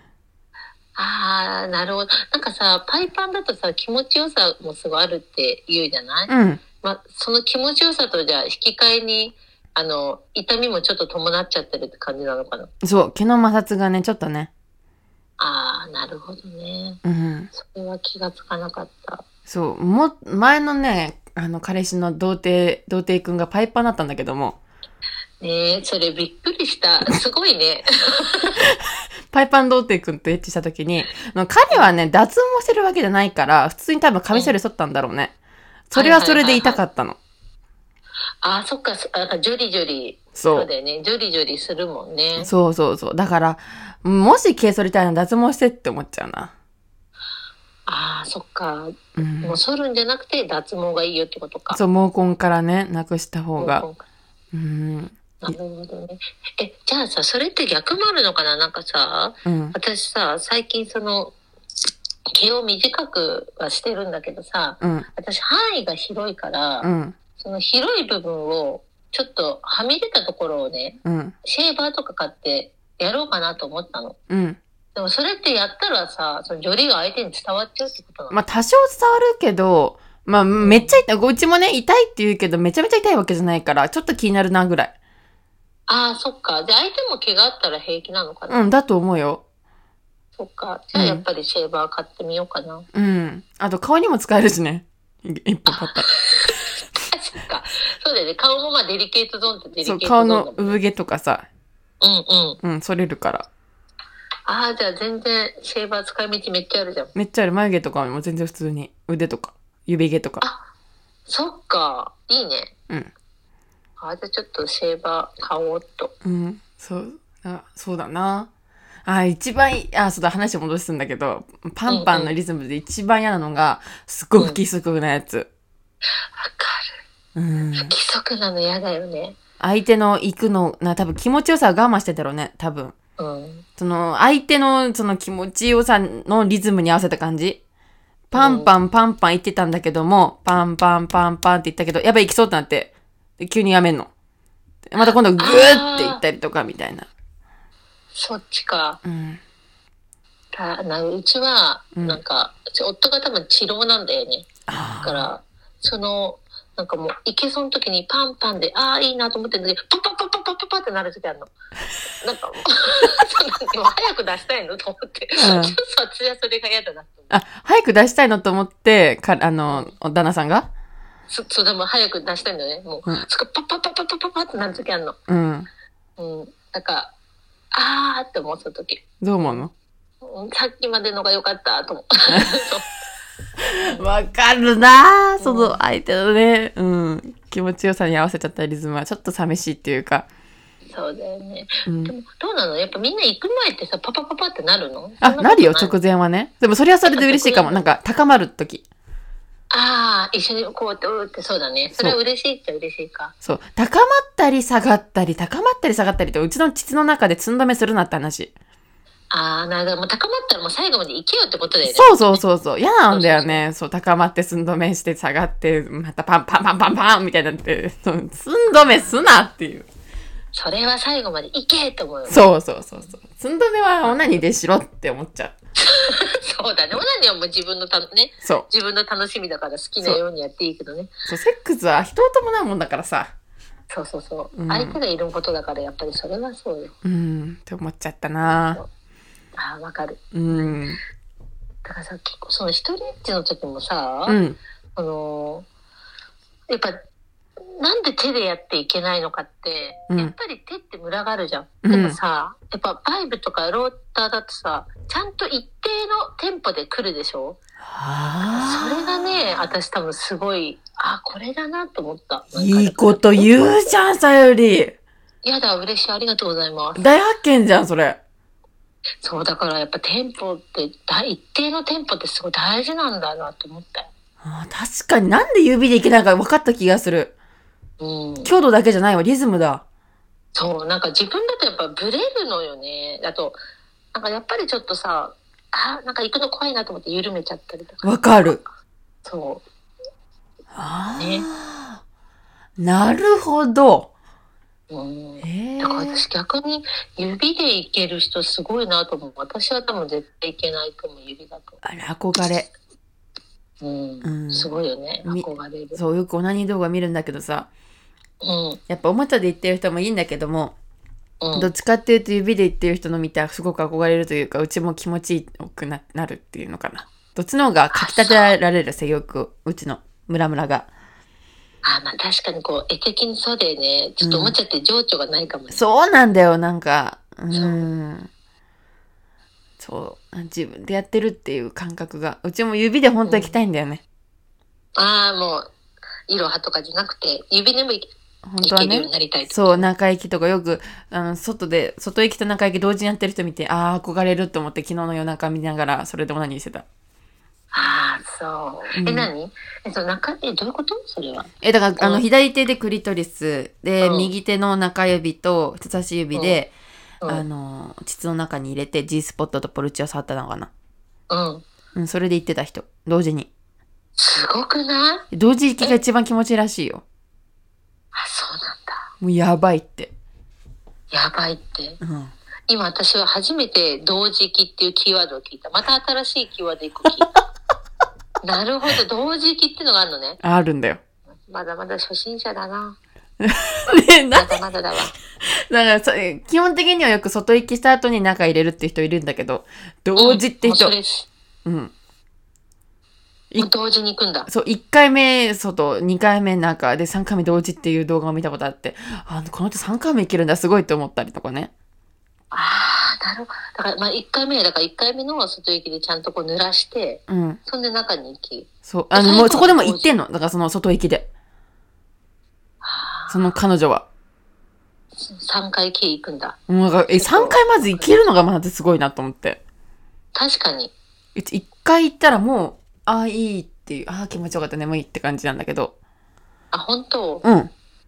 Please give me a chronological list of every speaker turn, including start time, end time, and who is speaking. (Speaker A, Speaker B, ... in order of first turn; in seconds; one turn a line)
Speaker A: 0.9-12.7
Speaker B: 6.3-6.6
Speaker B: 12.8-14.5
Speaker A: 15.4-17.0
Speaker B: 17.0-17.5
Speaker A: 17.5-19.2
Speaker B: 19.5-24.6
Speaker A: 25.4-28.6
Speaker B: 29.3-35.3
Speaker B: 35.9-37.2
Speaker A: 35.9-36.8
Speaker A: 38.4-42.5
Speaker B: 40.4-40.7
Speaker B: 42.4-46.5
Speaker A: 47.9-51.8
Speaker B: 49.1-49.6
Speaker B: 51.7-53.9
Speaker A: 53.6-54.0
Speaker B: 54.5-55.6
Speaker A: 55.4-61.3
Speaker B: 59.4-59.7
Speaker A: 62.3-66.9
Speaker B: 64.8-65.1
Speaker B: 66.8-67.2
Speaker A: 67.4-74.2
Speaker B: 71.0-71.3
Speaker B: 74.3-74.6
Speaker A: 74.9-78.4
Speaker B: 78.3-84.9
Speaker A: 80.6-81.0
Speaker A: 85.9-88.7
Speaker B: 88.5-89.4
Speaker A: 90.4-92.8
Speaker B: 90.9-91.2
Speaker B: 92.9-96.1
Speaker A: 95.7-100.8
Speaker B: 99.8-101.5
Speaker A: 102.0-102.6
Speaker B: 102.6-103.5
Speaker A: 104.5-107.1
Speaker B: 107.1-110.4
Speaker A: 111.3-112.7
Speaker A: 114.0-116.1
Speaker B: 116.2-118.5
Speaker B: 119.0-125.5
Speaker A: 121.9-122.3
Speaker A: 126.2-126.9
Speaker B: 127.3-127.9
Speaker A: 127.7-129.3
Speaker B: 129.6-132.9
Speaker A: 133.2-133.6
Speaker B: 133.8-137.6
Speaker B: 138.3-144.1
Speaker A: 138.3-138.7
Speaker B: 144.9-147.1
Speaker A: 145.0-146.2
Speaker A: 148.1-149.0
Speaker B: 149.0-149.4
Speaker A: 150.5-161.5
Speaker B: 151.9-152.2
Speaker B: 154.7-155.3
Speaker A: 162.2-167.3
Speaker B: 165.4-165.8
Speaker B: 167.3-170.7
Speaker A: 169.7-169.9
Speaker A: 171.3-175.2
Speaker B: 175.3-175.7
Speaker A: 176.2-177.1
Speaker A: 177.7-179.7
Speaker B: 179.2-179.7
Speaker A: 180.2-182.8
Speaker B: 183.6-190.3
Speaker A: 183.8-184.1
Speaker A: 185.4-185.8
Speaker A: 190.9-196.0
Speaker B: 191.8-192.1
Speaker B: 195.2-198.8
Speaker A: 197.1-197.8
Speaker A: 199.7-203.3
Speaker B: 201.9-202.2
Speaker B: 203.4-208.5
Speaker A: 209.3-212.4
Speaker B: 211.8-219.9
Speaker A: 213.1-213.6
Speaker A: 218.7-219.1
Speaker A: 220.5-222.5
Speaker B: 222.3-225.5
Speaker A: 225.8-231.1
Speaker B: 228.4-228.7
Speaker B: 231.3-233.3
Speaker A: 233.9-236.9
Speaker B: 234.5-235.0
Speaker B: 237.0-238.8
Speaker A: 238.5-238.9
Speaker A: 239.6-240.8
Speaker B: 240.3-241.0
Speaker A: 241.8-244.4
Speaker B: 244.3-244.6
Speaker A: 244.9-245.7
Speaker A: 246.7-247.0
Speaker A: 247.6-257.6
Speaker B: 251.8-252.2
Speaker B: 257.8-259.7
Speaker A: 258.5-263.9
Speaker B: 262.5-264.9
Speaker A: 265.4-267.0
Speaker B: 266.9-268.2
Speaker A: 269.2-274.1
Speaker B: 274.4-277.3
Speaker A: 278.0-278.5
Speaker B: 278.4-279.8
Speaker A: 280.5-283.6
Speaker A: 284.1-288.2
Speaker B: 288.0-288.6
Speaker A: 289.2-289.6
Speaker B: 290.7-292.0
Speaker A: 291.2-291.5
Speaker B: 292.8-294.1
Speaker A: 294.9-301.8
Speaker B: 295.4-296.2
Speaker B: 301.8-302.7
Speaker A: 303.8-306.0
Speaker B: 304.2-304.7
Speaker B: 305.2-307.7
Speaker A: 308.4-308.8
Speaker B: 308.9-310.8
Speaker A: 311.4-311.7
Speaker B: 311.5-320.9
Speaker A: 317.9-318.6
Speaker A: 321.8-325.8
Speaker B: 324.2-324.6
Speaker B: 325.7-328.3
Speaker A: 327.5-327.8
Speaker B: 329.8-334.0
Speaker A: 333.2-333.6
Speaker A: 335.0-335.7
Speaker A: 336.3-339.9
Speaker B: 338.4-346.9
Speaker A: 347.7-352.2
Speaker B: 348.9-349.3
Speaker B: 351.6-356.7
Speaker A: 354.0-354.3
Speaker A: 356.3-356.6
Speaker B: 357.3-360.7
Speaker A: 361.3-361.6
Speaker B: 361.9-363.5
Speaker A: 364.2-365.2
Speaker B: 365.3-367.0
Speaker A: 368.1-369.1
Speaker B: 369.2-370.1
Speaker A: 371.1-372.0
Speaker B: 372.0-372.3
Speaker A: 372.7-377.3
Speaker A: 378.4-380.4
Speaker B: 380.4-381.0
Speaker A: 381.5-383.0
Speaker B: 383.4-384.6
Speaker A: 384.3-385.1
Speaker B: 385.5-390.9
Speaker A: 390.1-391.3
Speaker B: 391.6-391.9
Speaker A: 393.6-394.5
Speaker B: 394.5-401.7
Speaker A: 402.5-410.2
Speaker B: 407.3-407.6
Speaker B: 408.9-411.3
Speaker A: 412.8-413.6
Speaker B: 413.3-414.1
Speaker A: 415.2-418.1
Speaker B: 416.7-419.6
Speaker A: 420.3-420.9
Speaker B: 421.4-425.9
Speaker A: 426.7-427.4
Speaker B: 427.4-427.7